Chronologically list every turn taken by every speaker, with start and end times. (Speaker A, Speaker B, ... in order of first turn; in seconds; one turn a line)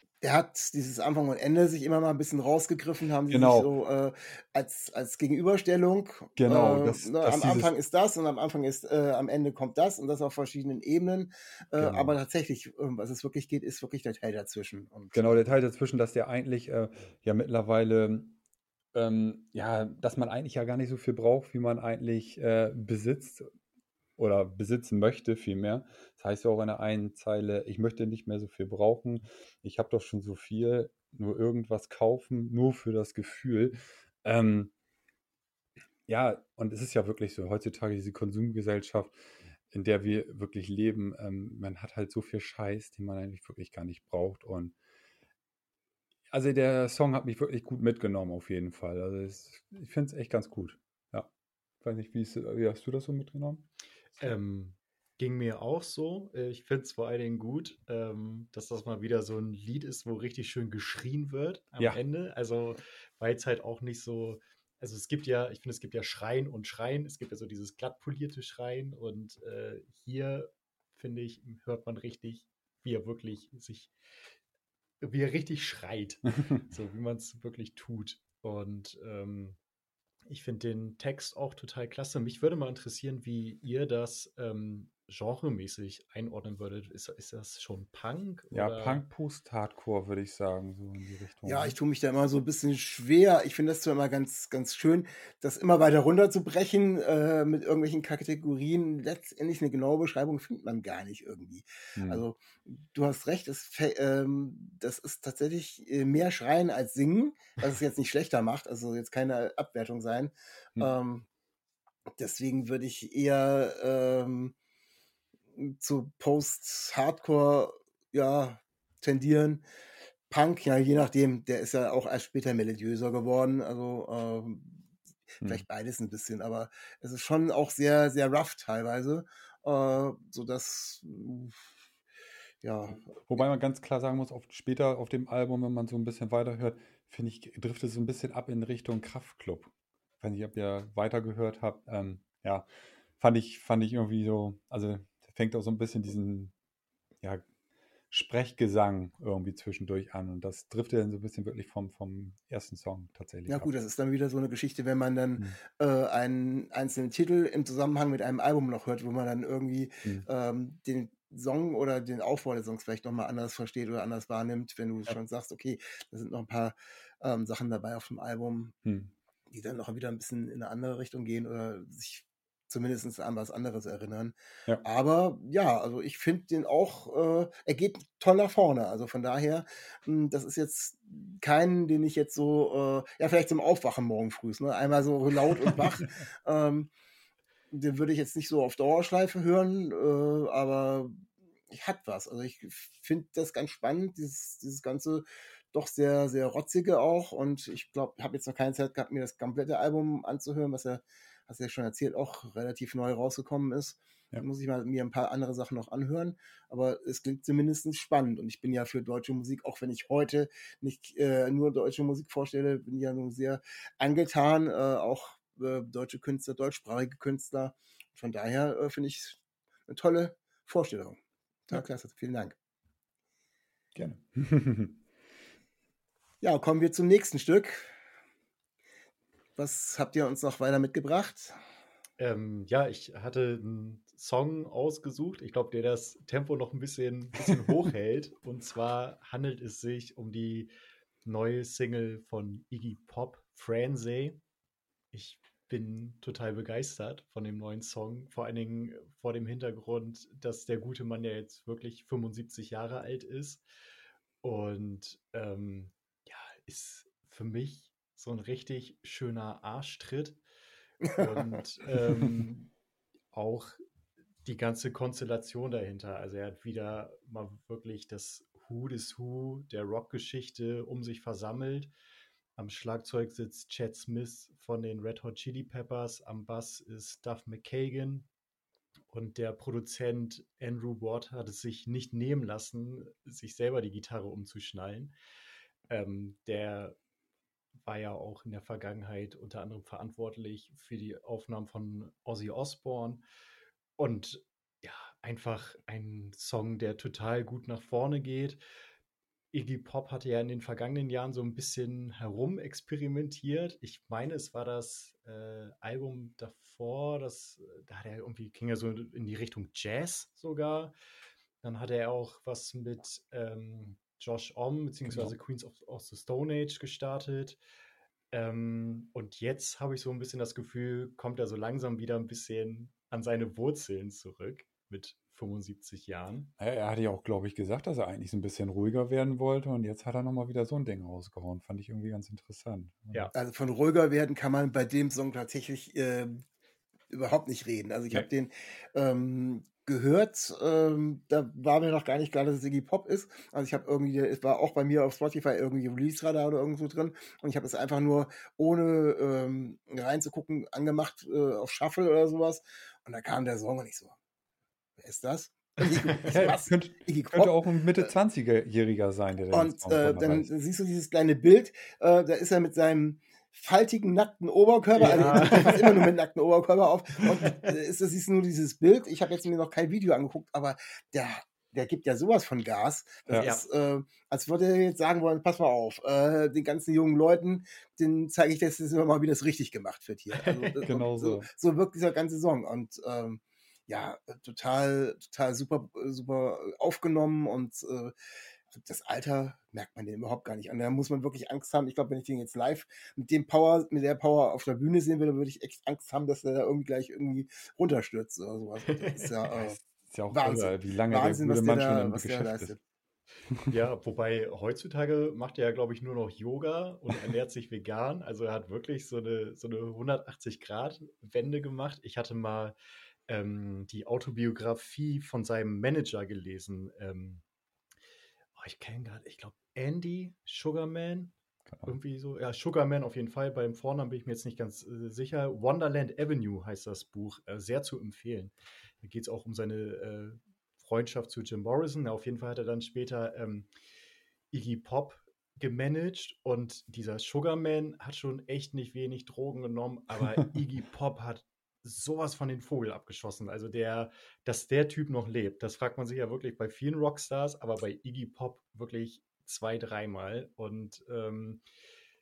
Speaker A: 0.2-15.5
Speaker B: 3.3-3.7
Speaker B: 6.4-7.7
Speaker B: 11.7-12.2
Speaker B: 15.1-18.4
Speaker B: 18.9-23.5
Speaker B: 24.2-34.7
Speaker B: 36.1-39.1
Speaker B: 39.7-44.8
Speaker B: 46.3-51.3
Speaker B: 51.8-53.7
Speaker C: 54.2-73.9
Speaker C: 75.0-79.6
Speaker C: 80.3-89.0
Speaker B: 88.5-91.8
Speaker A: 91.5-111.3
Speaker B: 102.0-102.2
Speaker A: 112.2-114.5
Speaker A: 115.6-119.6
Speaker A: 120.3-124.8
Speaker A: 125.4-131.6
Speaker A: 132.6-133.4
Speaker B: 133.3-142.7
Speaker B: 143.2-146.5
Speaker B: 148.1-153.7
Speaker A: 153.5-168.8
Speaker B: 168.8-169.1
Speaker A: 169.5-186.9
Speaker A: 187.7-191.2
Speaker A: 191.7-221.2
Speaker A: 221.7-222.6
Speaker B: 223.9-225.0
Speaker A: 226.4-227.9
Speaker A: 229.6-231.6
Speaker C: 232.2-240.7
Speaker C: 241.2-244.4
Speaker C: 245.1-253.6
Speaker C: 254.4-260.4
Speaker A: 261.0-261.6
Speaker C: 261.1-262.7
Speaker C: 263.3-263.8
Speaker C: 264.4-271.9
Speaker C: 272.6-278.3
Speaker C: 279.1-285.1
Speaker C: 285.9-287.0
Speaker C: 287.8-293.2
Speaker C: 294.0-298.6
Speaker C: 299.5-310.9
Speaker C: 311.6-317.6
Speaker B: 315.1-315.4
Speaker C: 318.3-326.5
Speaker B: 326.6-333.3
Speaker A: 333.3-336.4
Speaker A: 337.1-354.1
Speaker A: 355.0-358.1
Speaker B: 356.2-360.5
Speaker A: 359.5-388.1
Speaker C: 365.0-366.1
Speaker B: 365.1-365.6
Speaker C: 373.4-373.6
Speaker C: 380.3-380.9
Speaker B: 380.9-381.5
Speaker A: 388.7-402.8
Speaker B: 399.5-402.8
Speaker C: 403.7-412.7
Speaker C: 413.3-417.4
Speaker C: 418.6-421.3
Speaker B: 421.7-421.9
Speaker C: 421.9-433.7
Speaker C: 434.5-451.6